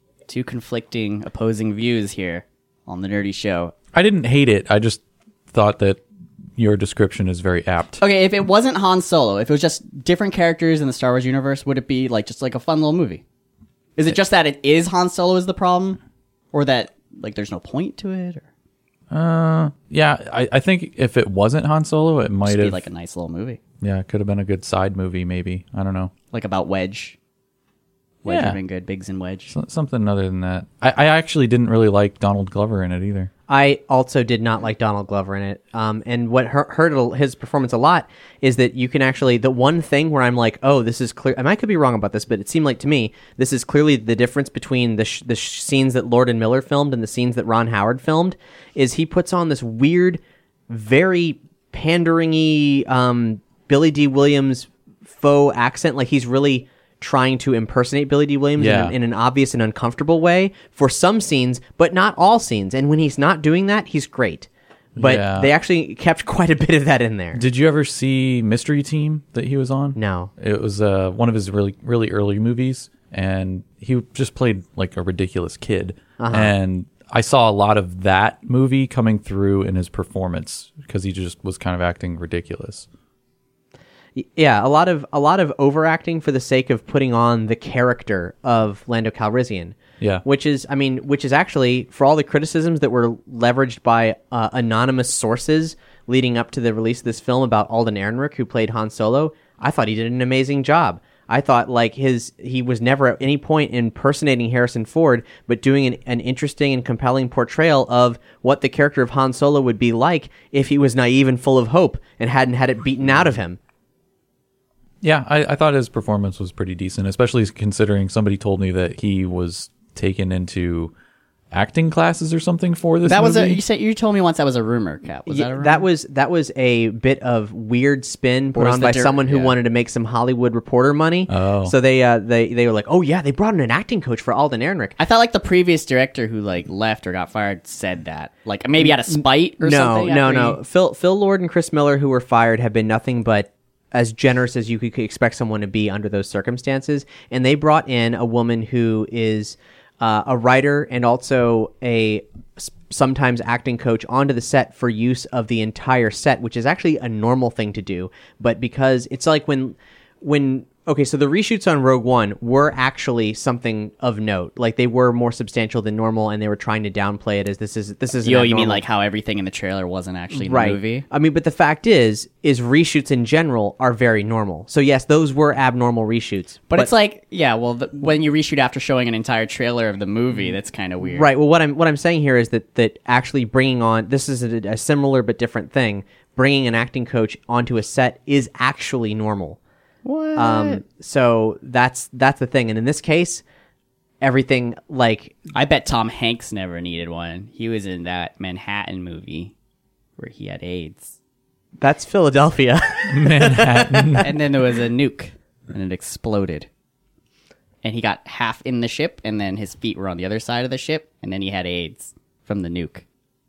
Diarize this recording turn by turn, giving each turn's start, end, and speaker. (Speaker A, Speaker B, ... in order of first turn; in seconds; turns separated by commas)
Speaker A: 0.3-3.7, Speaker B: 3.9-6.0, Speaker B: 6.6-8.0, Speaker A: 8.0-13.2, Speaker A: 14.0-16.0, Speaker A: 16.5-18.5, Speaker B: 19.1-22.9, Speaker A: 22.4-23.6, Speaker B: 23.8-26.1, Speaker A: 26.3-27.2, Speaker A: 28.2-29.5, Speaker B: 28.3-28.6, Speaker B: 29.5-33.3, Speaker C: 33.5-67.4, Speaker B: 58.6-59.0, Speaker B: 65.0-65.5, Speaker B: 67.4-82.9, Speaker C: 70.0-70.3, Speaker C: 76.2-76.5, Speaker C: 84.2-113.6, Speaker B: 115.0-120.9, Speaker B: 121.5-123.6, Speaker A: 123.1-125.9, Speaker C: 125.3-135.0, Speaker A: 128.6-129.6, Speaker B: 131.3-131.7, Speaker A: 135.0-140.6, Speaker C: 138.8-168.8, Speaker A: 168.2-171.1, Speaker C: 170.3-176.9, Speaker A: 176.7-181.3, Speaker C: 181.1-189.6, Speaker A: 190.1-190.8, Speaker C: 190.4-193.4, Speaker C: 194.2-195.4, Speaker A: 195.5-199.5, Speaker A: 200.2-201.2, Speaker C: 201.8-204.3, Speaker B: 203.1-204.3, Speaker A: 204.2-206.7, Speaker A: 207.8-213.0